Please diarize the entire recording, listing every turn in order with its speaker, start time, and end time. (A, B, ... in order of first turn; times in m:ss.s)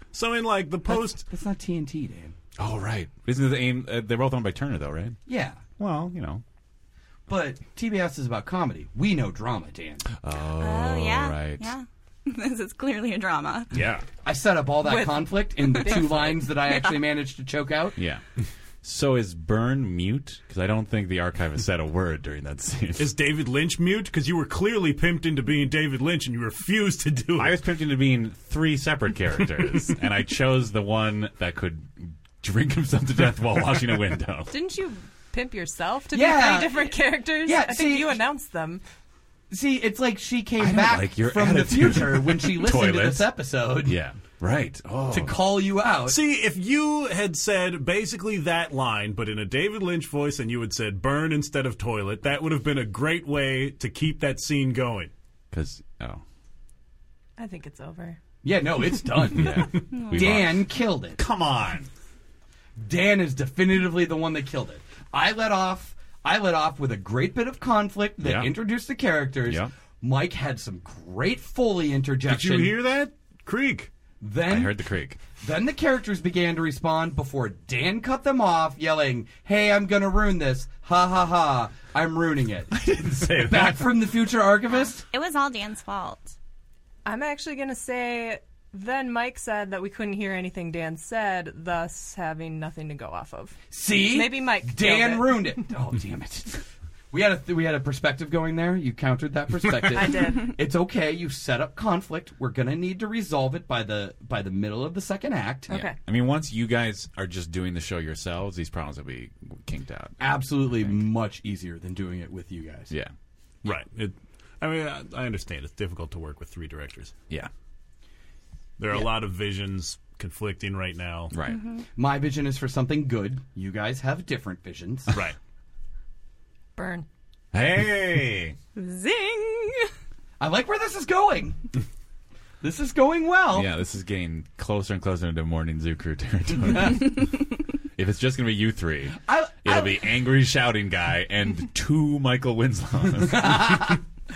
0:00.1-0:01.2 A
0:01.2-0:02.3 B
0:02.6-0:05.2 C
0:05.3-0:05.6 B
0:05.8-0:06.4 C
0:07.3-0:10.1 B
0:10.2-0:11.7 C
0:10.6-0:13.7 D
0:13.7-0:14.0 C
0:14.2-0:18.0 B
0:14.8-0:16.5 E
0:16.7-0:17.0 D
0:18.0-0:18.2 C
0:18.8-0:23.1 C
0:23.0-0:27.6 A
0:27.4-0:34.5 C
0:34.5-0:38.8 E
0:36.1-0:38.2 B
0:39.5-0:44.0 B
0:40.6-0:43.3 C
0:43.8-0:45.4 C
0:45.1-0:46.2 B
0:46.1-0:55.1 A
0:55.5-0:56.2 C
0:57.4-0:58.2 E
0:58.4-1:01.2 B
0:59.3-1:01.9 C
0:59.9-1:00.4 D
1:02.8-1:12.8 B
1:08.2-1:08.5 C
1:09.4-1:09.7 C
1:12.3-1:13.9 A
1:14.2-1:14.8 B
1:14.4-1:15.2 C
1:15.3-1:25.0 B
1:22.7-1:23.9 C
1:24.7-1:26.3 D
1:27.0-1:35.5 E
1:33.7-1:45.8 B
1:39.9-1:40.5 E
1:45.7-1:46.0 E
1:45.7-1:51.0 C
1:50.2-1:52.9 B
1:53.6-1:57.1 A
1:58.8-2:01.3 A
2:01.3-2:01.6 C
2:01.4-2:01.8 D
2:02.0-2:05.1 B
2:06.8-2:07.0 E
2:07.5-2:08.6 C
2:08.7-2:09.9 D
2:10.4-2:11.6 B
2:12.6-2:13.7 B
2:13.5-2:17.4 C
2:17.9-2:24.0 C
2:19.2-2:20.0 B
2:23.3-2:24.0 B